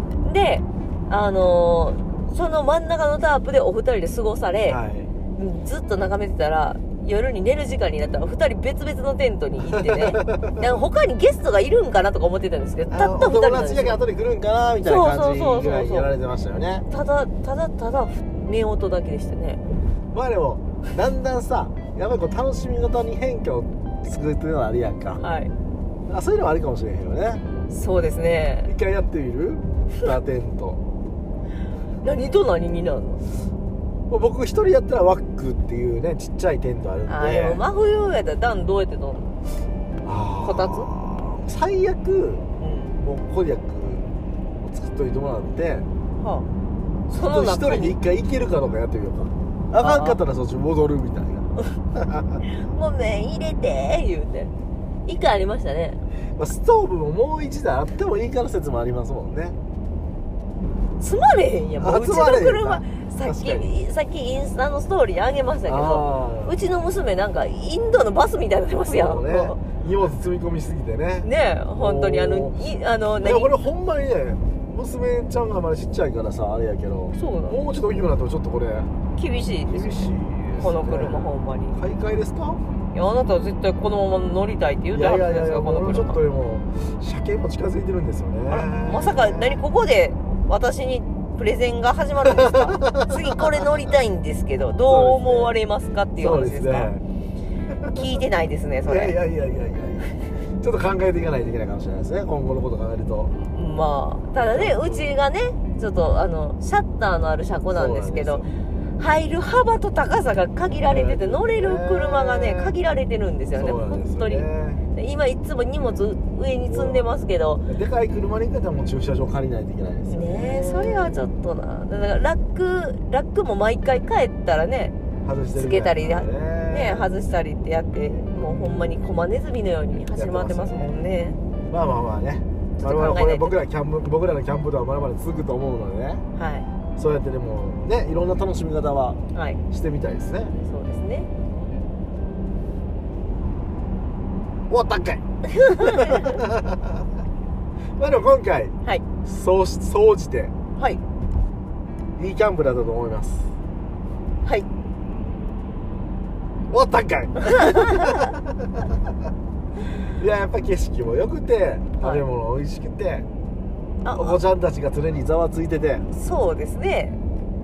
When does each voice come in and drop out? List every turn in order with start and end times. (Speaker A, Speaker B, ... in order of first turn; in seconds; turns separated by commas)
Speaker A: 0.2-4.8, Speaker B: 4.7-5.1, Speaker A: 5.3-14.0, Speaker B: 9.7-10.7, Speaker B: 12.9-16.9, Speaker A: 14.8-16.1, Speaker A: 16.9-19.6, Speaker B: 20.1-25.2, Speaker A: 25.2-25.5, Speaker B: 26.1-27.4, Speaker A: 27.7-28.7, Speaker B: 28.7-30.8, Speaker A: 32.0-33.2, Speaker B: 34.1-37.6, Speaker A: 37.1-39.3, Speaker B: 40.0-42.4, Speaker A: 40.4-40.9, Speaker A: 42.6-43.0, Speaker B: 43.0-44.0, Speaker B: 44.6-45.9, Speaker A: 46.2-46.5, Speaker A: 47.1-48.0, Speaker B: 47.1-52.4, Speaker A: 49.8-50.2, Speaker A: 52.5-54.5, Speaker A: 55.1-56.0, Speaker B: 56.4-59.6, Speaker A: 61.0-69.6, Speaker B: 61.8-63.7, Speaker B: 65.7-66.6, Speaker B: 68.9-72.6, Speaker A: 71.2-73.5, Speaker B: 73.2-78.9, Speaker A: 77.2-77.6, Speaker A: 79.2-81.8, Speaker B: 79.7-82.6, Speaker A: 82.9-86.2, Speaker B: 84.9-89.6, Speaker A: 88.5-96.9, Speaker B: 92.3-93.4, Speaker B: 94.9-95.5, Speaker B: 96.2-97.0, Speaker B: 97.7-98.0, Speaker A: 97.9-99.2, Speaker B: 98.9-103.3, Speaker A: 103.5-108.4, Speaker B: 104.4-105.1, Speaker B: 107.7-108.5, Speaker A: 109.0-117.7, Speaker B: 110.9-112.7, Speaker B: 113.5-114.8, Speaker B: 116.7-117.1, Speaker B: 117.7-121.2, Speaker A: 120.1-125.0, Speaker B: 125.2-127.1, Speaker A: 125.5-131.4, Speaker B: 128.2-129.0, Speaker B: 130.1-130.9, Speaker B: 131.7-136.2, Speaker A: 132.8-133.6, Speaker A: 136.4-136.7, Speaker B: 137.0-140.5, Speaker A: 139.3-139.6, Speaker A: 140.6-141.3, Speaker B: 144.7-147.1, Speaker A: 145.5-146.4, Speaker B: 148.0-150.5, Speaker A: 150.8-151.0, Speaker B: 152.2-153.5, Speaker B: 156.7-159.0, Speaker A: 157.4-158.3, Speaker B: 160.2-163.3, Speaker A: 164.0-164.4, Speaker B: 164.1-166.1, Speaker A: 166.1-167.2